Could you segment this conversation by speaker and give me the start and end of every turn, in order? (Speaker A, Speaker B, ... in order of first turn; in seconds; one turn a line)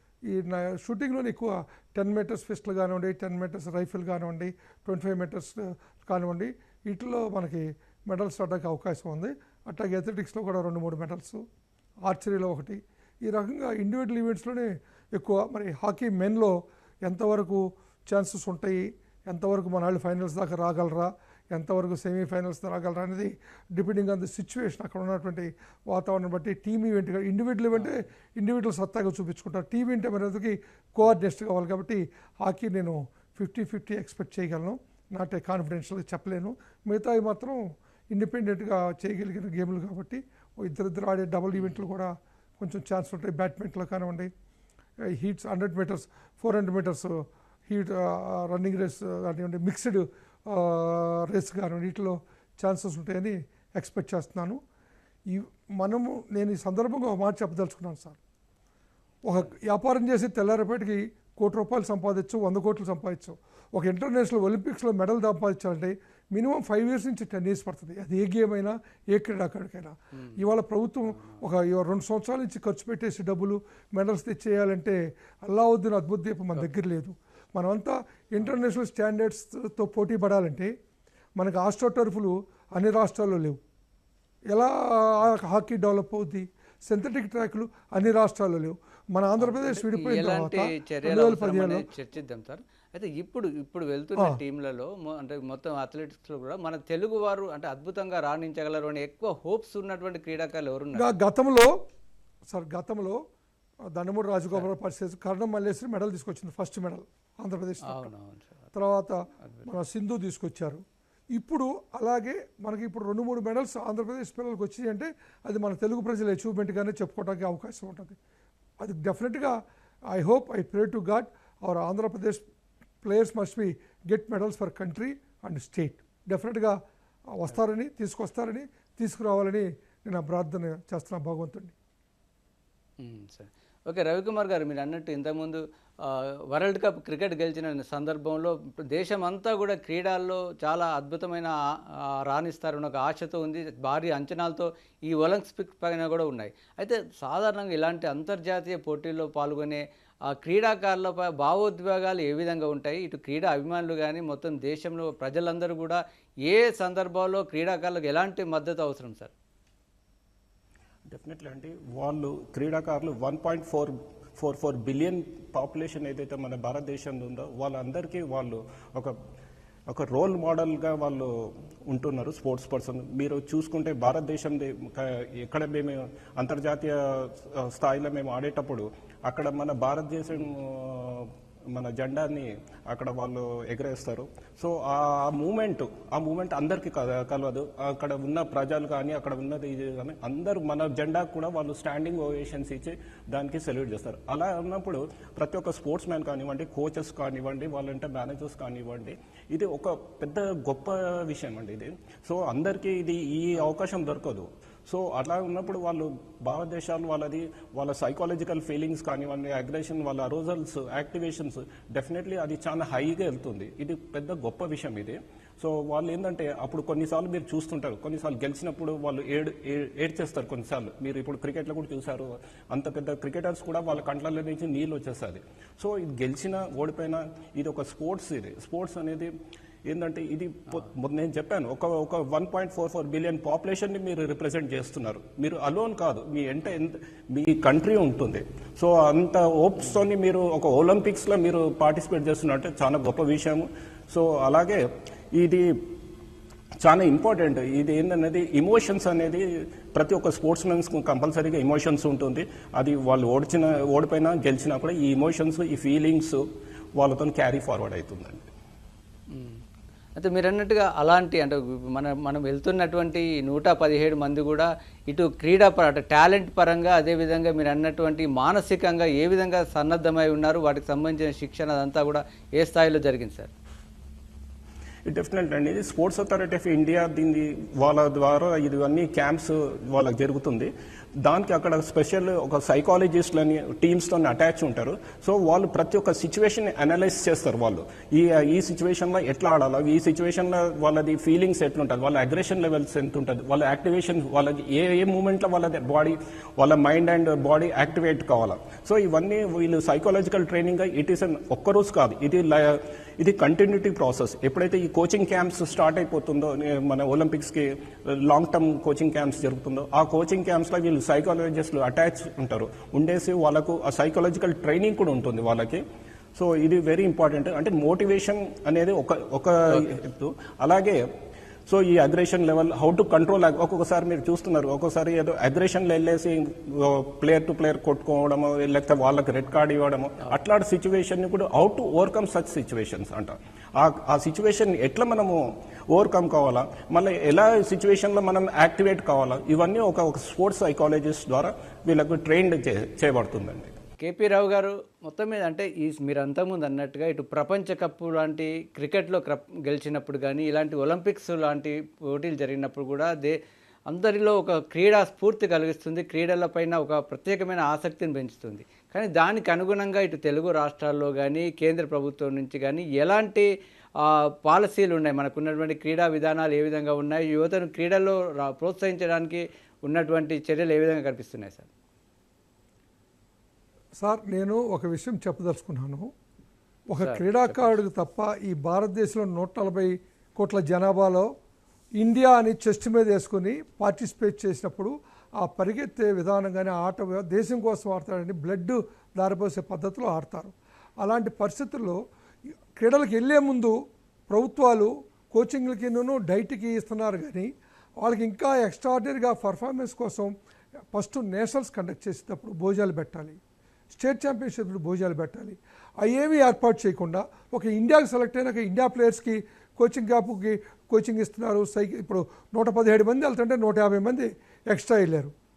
Speaker A: 0.3-11.4
Speaker A: 12.1-44.3
Speaker A: 45.1-54.6
Speaker A: 55.3-58.2
Speaker A: 59.2-80.7
Speaker B: 71.1-71.4
Speaker A: 81.4-83.6
Speaker A: 84.5-91.8
Speaker B: 89.4-101.1
Speaker A: 101.0-101.7
Speaker A: 102.5-103.2
Speaker A: 104.0-108.1
Speaker B: 107.8-108.7
Speaker A: 108.7-110.8
Speaker A: 111.3-118.2
Speaker A: 118.8-119.6
Speaker A: 120.1-122.5
Speaker A: 123.0-126.8
Speaker A: 127.3-131.7
Speaker B: 133.0-141.5
Speaker B: 142.1-159.3
Speaker C: 161.1-169.2
Speaker C: 169.9-229.3
Speaker C: 229.9-246.0
Speaker C: 246.8-256.4
Speaker C: 257.0-258.5
Speaker B: 259.3-259.6
Speaker B: 260.2-273.5
Speaker C: 275.1-280.7
Speaker C: 281.2-315.8
Speaker C: 316.4-321.1
Speaker C: 321.7-343.8
Speaker B: 344.0-353.4
Speaker B: 353.9-371.7
Speaker A: 374.0-376.1
Speaker A: 376.9-381.3
Speaker B: 377.0-377.8
Speaker A: 382.0-392.0
Speaker A: 392.8-393.8
Speaker A: 394.3-400.3
Speaker A: 400.9-403.4
Speaker A: 403.9-415.3